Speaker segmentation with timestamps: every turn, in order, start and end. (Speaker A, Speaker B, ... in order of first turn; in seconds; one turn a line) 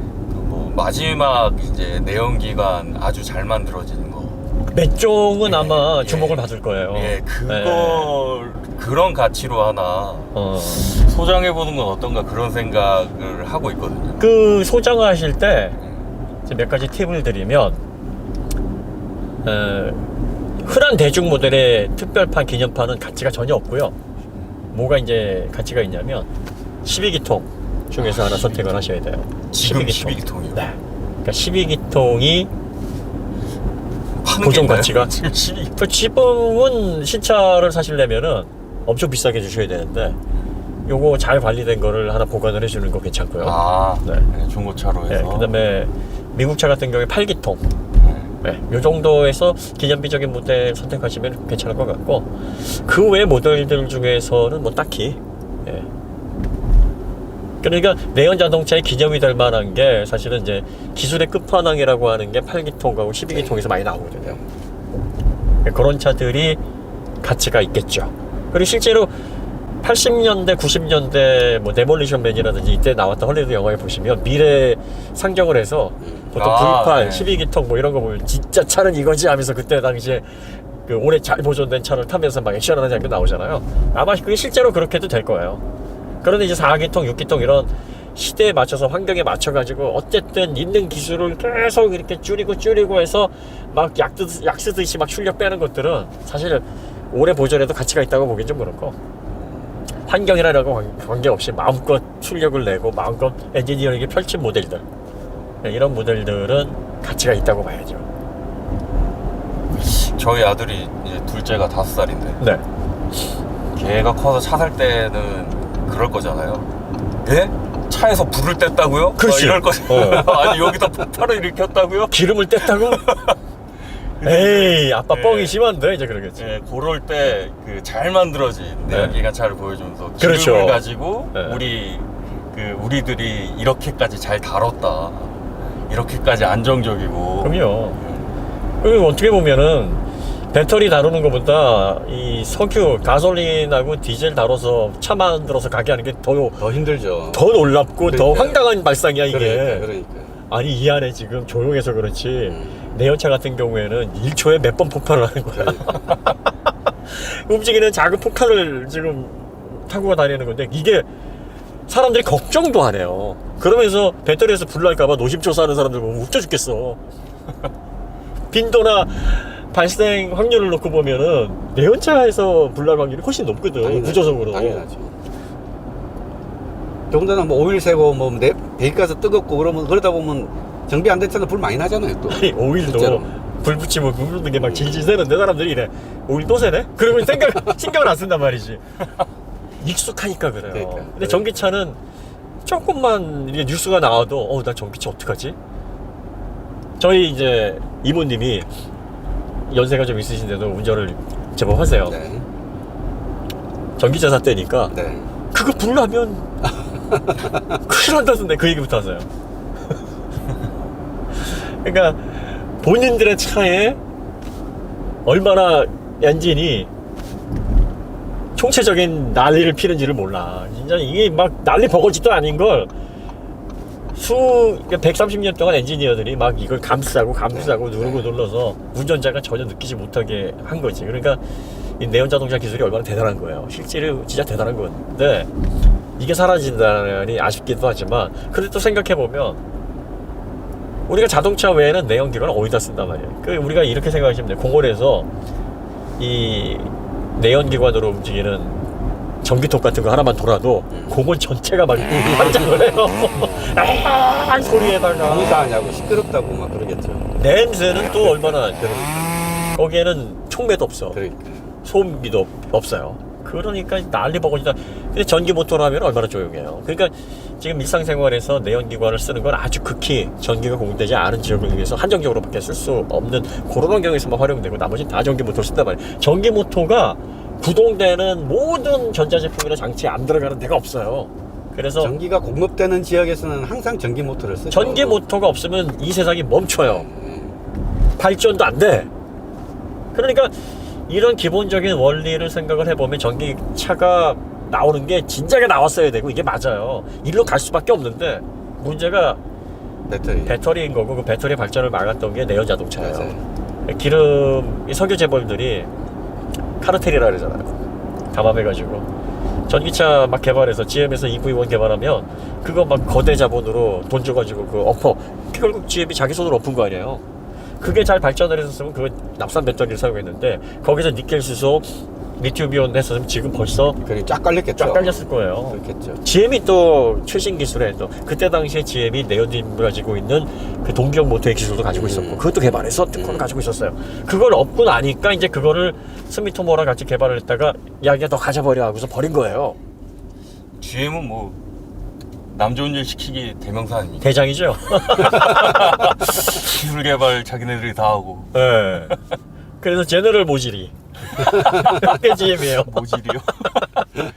Speaker A: 0.3-4.4
Speaker B: 4.7-8.2
Speaker A: 5.4-14.2
Speaker B: 10.3-10.8
Speaker B: 14.2-15.8
Speaker B: 16.4-17.8
Speaker B: 19.4-20.1
Speaker B: 20.6-23.9
Speaker B: 24.7-26.3
Speaker B: 26.8-32.5
Speaker A: 27.9-28.9
Speaker A: 29.5-30.6
Speaker A: 34.2-35.8
Speaker B: 34.4-35.1
Speaker B: 35.7-40.2
Speaker B: 40.9-44.2
Speaker A: 43.4-45.5
Speaker B: 45.1-47.6
Speaker A: 48.0-48.3
Speaker B: 48.4-55.9
Speaker B: 57.6-64.4
Speaker C: 63.3-63.6
Speaker B: 65.6-66.6
Speaker B: 67.2-69.1
Speaker B: 69.8-85.6
Speaker C: 76.0-76.3
Speaker A: 76.3-77.4
Speaker B: 86.2-99.0
Speaker B: 100.0-104.8
Speaker B: 105.6-108.0
Speaker A: 109.7-112.4
Speaker A: 113.7-116.7
Speaker A: 117.2-123.4
Speaker B: 119.2-120.5
Speaker B: 122.1-123.1
Speaker A: 124.2-125.6
Speaker B: 124.2-126.5
Speaker A: 126.3-138.3
Speaker B: 128.9-129.2
Speaker B: 130.2-131.6
Speaker B: 137.4-138.0
Speaker B: 138.8-146.7
Speaker C: 146.6-147.4
Speaker B: 147.3-149.9
Speaker C: 148.1-148.6
Speaker C: 149.3-150.4
Speaker B: 150.5-156.1
Speaker C: 152.4-152.9
Speaker C: 155.5-156.0
Speaker B: 157.1-161.1
Speaker B: 161.9-167.0
Speaker B: 168.5-174.8
Speaker C: 173.8-175.1
Speaker C: 177.1-183.3
Speaker B: 182.3-188.8
Speaker C: 184.5-185.1
Speaker B: 189.8-192.0
Speaker C: 190.7-191.5
Speaker B: 192.6-195.6
Speaker B: 197.0-198.7
Speaker B: 199.7-202.2
Speaker C: 202.0-202.4
Speaker B: 204.0-204.9
Speaker C: 204.9-205.3
Speaker B: 205.5-206.5
Speaker B: 207.7-209.3
Speaker B: 211.3-214.0
Speaker B: 215.2-216.9
Speaker B: 218.5-222.9
Speaker B: 224.1-231.4
Speaker C: 227.5-228.3
Speaker B: 232.0-235.5
Speaker B: 236.2-239.6
Speaker B: 241.1-245.3
Speaker B: 246.2-248.9
Speaker B: 249.4-255.7
Speaker C: 250.9-251.2
Speaker C: 252.0-252.8
Speaker C: 255.2-257.3
Speaker B: 257.4-258.9
Speaker C: 257.9-259.5
Speaker B: 259.7-261.2
Speaker C: 261.1-261.7
Speaker B: 261.8-282.1
Speaker C: 282.0-285.2
Speaker B: 284.7-287.1
Speaker C: 286.8-287.6
Speaker B: 288.2-289.1
Speaker B: 290.1-290.5
Speaker B: 291.1-299.4
Speaker C: 300.1-300.6
Speaker B: 300.4-303.3
Speaker C: 303.0-303.4
Speaker B: 303.8-305.9
Speaker B: 306.8-307.8
Speaker B: 308.3-309.1
Speaker B: 309.7-317.2
Speaker B: 317.8-324.0
Speaker C: 324.0-326.2
Speaker B: 324.8-339.8
Speaker C: 331.9-332.5
Speaker C: 333.1-333.5
Speaker A: 340.8-341.6
Speaker A: 342.5-344.3
Speaker B: 344.2-345.9
Speaker A: 344.9-348.5
Speaker B: 348.5-349.2
Speaker B: 349.8-353.0
Speaker A: 351.5-354.0